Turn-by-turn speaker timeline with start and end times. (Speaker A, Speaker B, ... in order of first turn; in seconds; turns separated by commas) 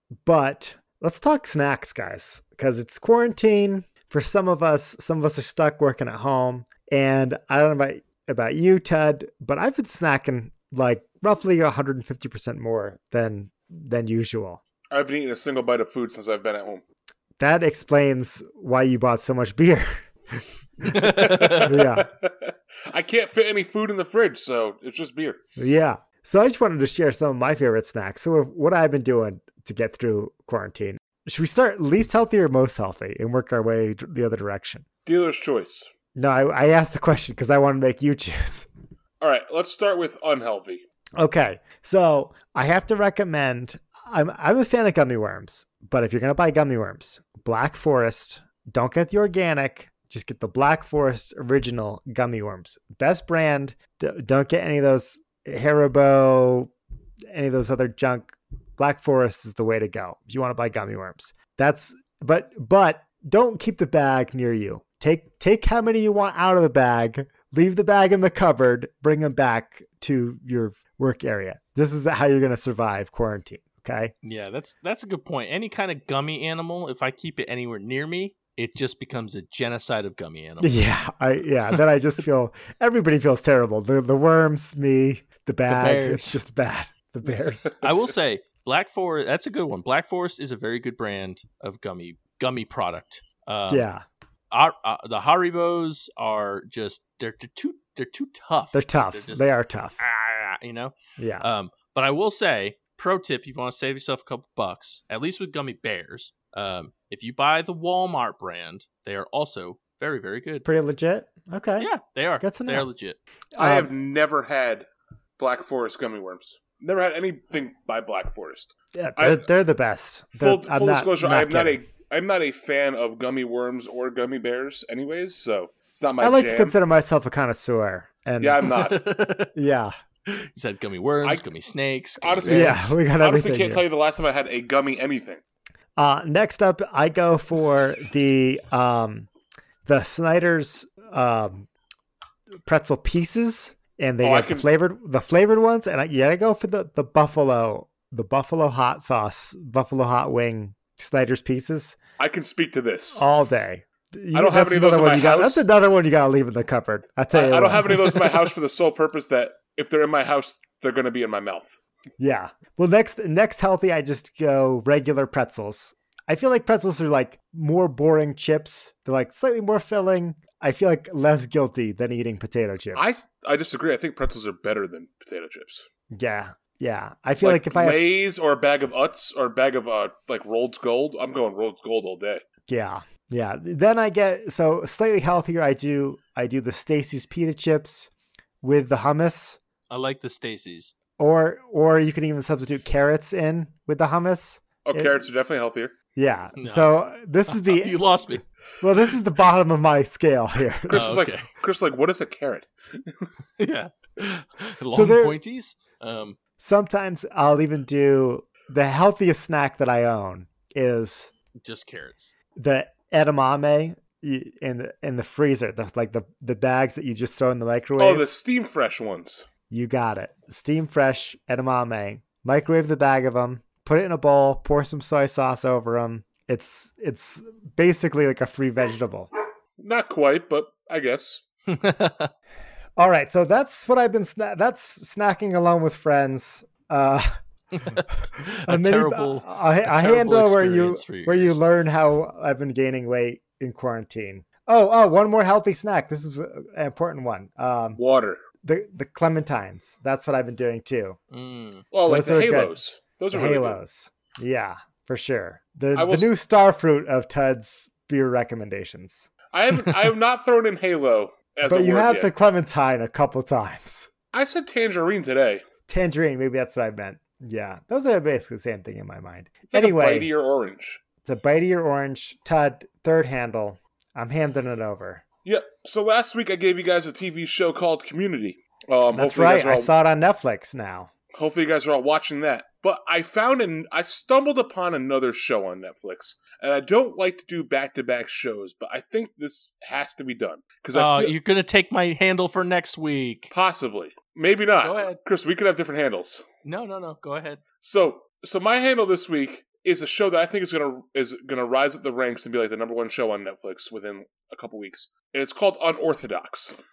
Speaker A: 0.2-14.6, Speaker B: 14.9-16.8, Speaker A: 17.4-20.9, Speaker C: 20.8-21.7, Speaker B: 20.9-25.4, Speaker A: 21.6-22.1, Speaker A: 25.6-34.8, Speaker B: 35.0-35.9, Speaker A: 36.1-38.7, Speaker B: 39.2-40.8, Speaker A: 41.1-56.7, Speaker A: 57.3-74.1, Speaker C: 74.2-80.8, Speaker A: 80.6-87.7, Speaker C: 85.7-86.4, Speaker C: 87.8-93.9, Speaker A: 93.7-94.0, Speaker C: 94.5-110.7, Speaker A: 98.7-100.0, Speaker A: 101.2-101.5, Speaker A: 110.6-112.9, Speaker C: 111.8-113.2, Speaker A: 113.5-113.9, Speaker B: 113.6-114.9, Speaker B: 115.4-119.5, Speaker A: 118.9-121.8, Speaker B: 120.4-126.8, Speaker A: 126.2-128.7, Speaker B: 128.4-129.0, Speaker C: 128.6-129.5, Speaker A: 129.5-129.9, Speaker C: 130.3-132.9, Speaker B: 132.2-135.4, Speaker A: 132.4-133.8, Speaker A: 136.0-139.3, Speaker A: 139.8-141.7, Speaker A: 142.6-152.0, Speaker B: 144.2-144.7, Speaker B: 152.2-153.2, Speaker A: 153.2-158.5, Speaker B: 154.3-155.7, Speaker B: 157.3-161.8, Speaker A: 162.2-173.2, Speaker B: 172.9-175.9, Speaker A: 176.1-178.0, Speaker B: 177.4-182.4, Speaker A: 182.7-188.1, Speaker A: 188.6-189.6, Speaker C: 189.9-190.9, Speaker A: 191.2-195.2, Speaker B: 194.8-195.9, Speaker A: 196.2-198.0, Speaker C: 196.6-196.9, Speaker C: 197.5-198.4, Speaker A: 198.8-201.2, Speaker B: 200.9-203.3, Speaker C: 200.9-201.5, Speaker C: 203.6-206.4, Speaker A: 204.9-205.4, Speaker A: 206.6-211.3, Speaker C: 211.6-212.3, Speaker A: 212.6-218.3, Speaker B: 218.0-219.5, Speaker A: 219.7-229.3, Speaker B: 229.8-231.4, Speaker C: 231.7-232.3, Speaker A: 233.0-237.3, Speaker C: 237.7-241.6, Speaker A: 238.2-248.0, Speaker B: 248.0-248.4, Speaker A: 248.6-251.2, Speaker C: 251.3-251.8, Speaker B: 251.9-253.8, Speaker A: 252.1-252.7, Speaker A: 253.3-259.3, Speaker B: 255.9-256.3, Speaker B: 259.5-262.3, Speaker A: 261.6-264.1, Speaker B: 264.3-265.6, Speaker A: 265.9-270.3, Speaker B: 269.7-271.0, Speaker A: 271.2-275.2, Speaker B: 275.4-279.9, Speaker A: 279.1-281.1, Speaker B: 281.3-291.3, Speaker C: 290.9-293.5, Speaker B: 293.5-296.4, Speaker C: 294.8-295.2, Speaker C: 296.6-297.6, Speaker B: 297.8-306.8